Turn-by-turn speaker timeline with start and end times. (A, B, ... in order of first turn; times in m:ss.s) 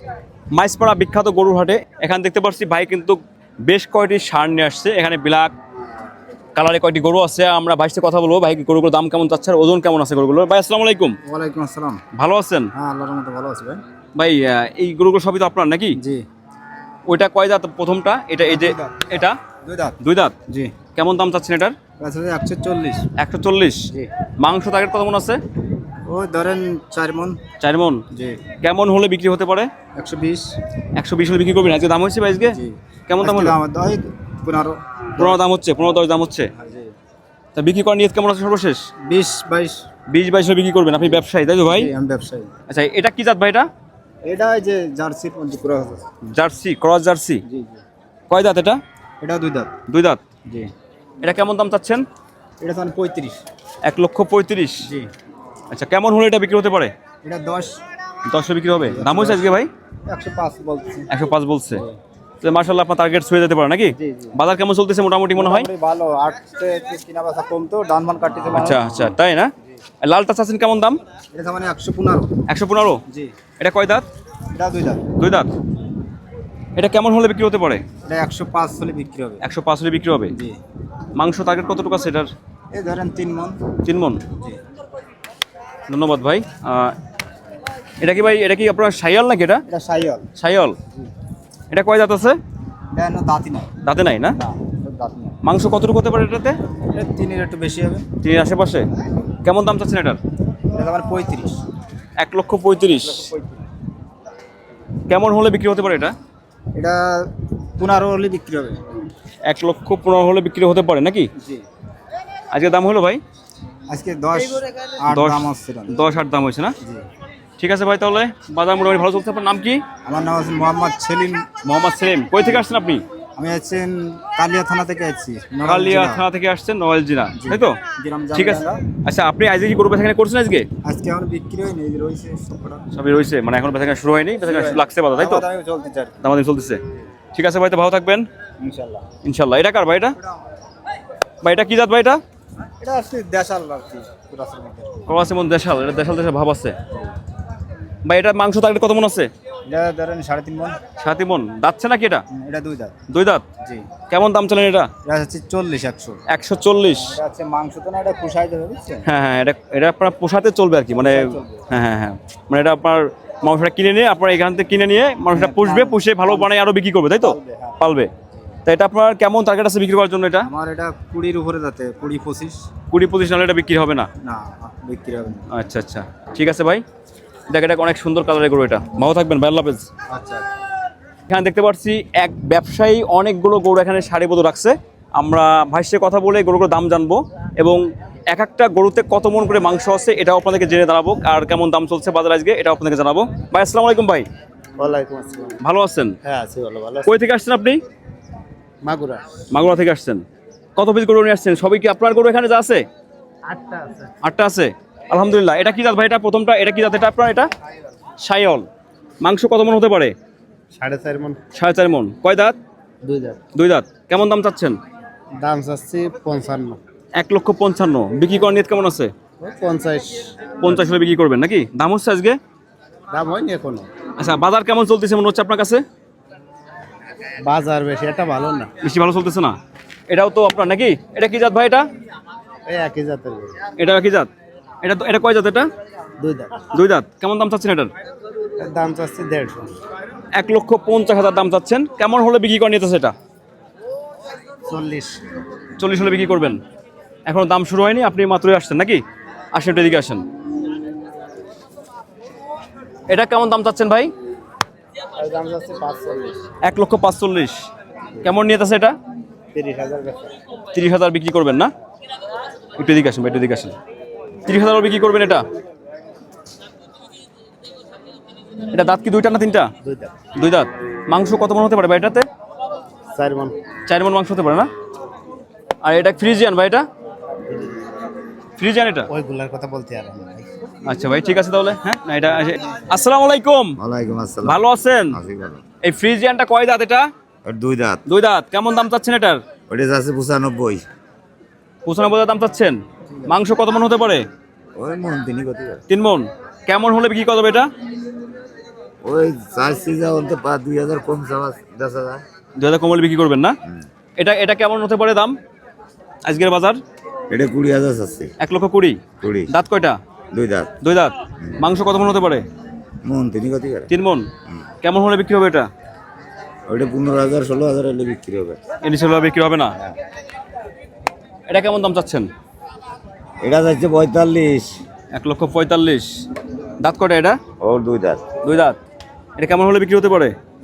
0:00.5-0:05.5 A
0:06.5-0:11.2 A
0:11.2-0:12.0 B
0:12.1-0:12.7 A
0:12.7-0:13.8 B
0:14.2-0:16.0 A
0:16.0-0:16.2 B
0:17.1-0:19.4 A
0:18.4-0:20.7 B
0:20.0-0:20.4 A
0:20.9-0:21.8 A
0:22.0-0:23.1 B
0:23.2-0:25.4 A
0:26.0-0:27.4 B
0:27.6-0:28.0 A
0:28.1-0:28.5 B
0:28.6-0:29.7 A
0:30.0-0:30.6 B
0:31.0-0:33.6 A
0:32.5-0:35.4 B
0:35.2-0:36.5 A
0:36.5-0:36.9 B
0:37.5-0:38.8 A
0:39.0-0:39.8 B
0:40.1-0:41.9 A
0:41.6-0:42.5 B
0:42.7-0:43.7 A
0:44.2-0:46.2 B
0:46.3-0:47.4 A
0:47.5-0:47.8 B
0:48.3-0:48.8 A
0:49.2-0:49.7 B
0:49.9-0:50.2 A
0:51.2-0:52.0 A
0:52.6-0:53.4 B
0:53.8-0:54.9 A
0:54.8-0:55.1 B
0:55.7-0:56.9 A
0:57.2-0:57.8 B
0:58.3-0:59.7 A
0:58.8-1:01.1 B
1:01.1-1:01.8 A
1:02.4-1:05.7 A
1:04.0-1:04.4 B
1:05.3-1:09.2 B
1:08.5-1:11.0 A
1:11.3-1:12.4 B
1:12.5-1:13.0 A
1:13.1-1:13.3 B
1:13.6-1:14.0 A
1:14.5-1:15.1 B
1:15.1-1:15.5 A
1:16.7-1:17.8 A
1:18.0-1:19.4 B
1:19.4-1:20.3 A
1:20.3-1:20.6 B
1:21.2-1:22.3 A
1:22.7-1:23.7 B
1:23.8-1:24.2 A
1:25.9-1:27.0 A
1:28.0-1:29.6 A
1:29.7-1:30.3 B
1:30.4-1:30.8 A
1:31.7-1:32.4 A
1:32.9-1:33.7 B
1:33.8-1:34.4 A
1:34.4-1:35.4 B
1:35.4-1:36.6 A
1:36.9-1:38.1 B
1:38.2-1:38.8 A
1:39.4-1:40.2 A
1:40.7-1:41.6 B
1:42.2-1:43.3 A
1:43.0-1:43.6 B
1:45.1-1:46.1 A
1:46.7-1:48.8 B
1:49.4-1:51.3 A
1:51.4-1:51.6 B
1:52.5-1:53.2 A
1:53.9-1:56.0 B
1:55.1-1:56.7 A
1:57.6-1:59.8 A
2:00.0-2:01.5 B
2:01.6-2:03.0 A
2:03.4-2:06.2 B
2:05.6-2:07.8 A
2:07.3-2:08.8 B
2:08.3-2:10.7 A
2:10.8-2:12.9 B
2:12.9-2:15.4 A
2:14.4-2:16.3 B
2:16.2-2:16.8 A
2:17.3-2:18.2 A
2:18.6-2:19.0 B
2:19.2-2:20.1 A
2:20.2-2:20.5 B
2:21.4-2:22.2 A
2:22.8-2:25.0 B
2:25.1-2:26.8 A
2:28.0-2:29.3 A
2:29.7-2:30.8 B
2:31.0-2:32.2 A
2:32.3-2:32.9 B
2:33.1-2:33.4 A
2:34.1-2:34.9 A
2:35.0-2:36.2 B
2:36.3-2:37.2 A
2:36.9-2:39.1 B
2:39.0-2:48.1 A
2:40.9-2:41.7 B
2:45.3-2:46.5 B
2:47.2-2:47.9 B
2:48.6-2:50.5 A
2:50.4-2:52.6 B
2:52.9-2:54.1 A
2:54.2-2:55.4 B
2:55.5-2:56.8 A
2:57.5-2:59.9 A
3:00.1-3:00.5 B
3:01.3-3:14.2 A
3:14.8-3:15.6 B
3:15.6-3:16.1 A
3:16.2-3:17.1 B
3:17.0-3:17.8 A
3:18.8-3:19.3 B
3:19.5-3:20.2 A
3:20.8-3:22.8 A
3:23.5-3:24.1 B
3:24.2-3:27.5 A
3:28.2-3:28.7 A
3:29.2-3:30.1 A
3:30.7-3:31.4 B
3:31.5-3:32.6 A
3:33.0-3:33.4 B
3:33.5-3:34.8 A
3:35.4-3:36.8 B
3:37.2-3:39.1 A
3:39.4-3:40.5 B
3:40.6-3:42.4 A
3:43.1-3:43.9 B
3:44.2-3:45.8 A
3:47.4-3:48.7 B
3:48.8-3:49.6 A
3:50.1-3:51.9 A
3:52.6-3:53.6 B
3:53.8-3:54.3 A
3:54.8-3:55.7 A
3:56.2-3:56.6 B
3:56.7-3:57.9 A
3:58.6-3:59.7 B
4:00.4-4:03.1 A
4:04.7-4:05.2 B
4:05.8-4:06.6 A
4:07.2-4:10.2 A
4:13.0-4:14.1 A
4:15.2-4:16.4 B
4:16.6-4:17.6 A
4:18.2-4:18.9 A
4:19.5-4:20.3 B
4:20.7-4:21.7 A
4:22.8-4:23.8 A
4:24.4-4:25.4 A
4:28.7-4:29.7 A
4:29.8-4:30.1 B
4:30.3-4:32.2 A
4:33.1-4:33.6 B
4:33.9-4:34.7 A
4:35.8-4:36.8 A
4:37.5-4:37.8 B
4:38.6-4:39.1 A
4:39.1-4:40.5 B
4:40.8-4:43.8 A
4:43.8-4:45.6 C
4:44.4-4:45.2 A
4:45.8-4:47.1 A
4:47.4-4:48.0 C
4:48.0-4:49.4 A
4:49.7-4:50.8 C
4:51.8-4:54.2 A
4:54.8-4:55.8 C
4:55.9-4:57.7 A
4:59.0-5:02.2 C
5:02.6-5:03.6 A
5:04.2-5:05.4 A
5:06.2-5:06.8 A
5:07.3-5:08.3 C
5:08.4-5:10.0 A
5:09.2-5:09.5 C
5:10.3-5:10.7 C
5:10.8-5:12.4 A
5:13.0-5:13.9 C
5:13.9-5:14.3 A
5:14.8-5:15.7 A
5:16.7-5:18.6 C
5:18.8-5:19.7 A
5:21.5-5:22.3 A
5:23.4-5:24.7 C
5:25.1-5:26.2 A
5:26.8-5:27.4 A
5:27.6-5:28.2 C
5:28.4-5:28.8 A
5:29.4-5:30.3 A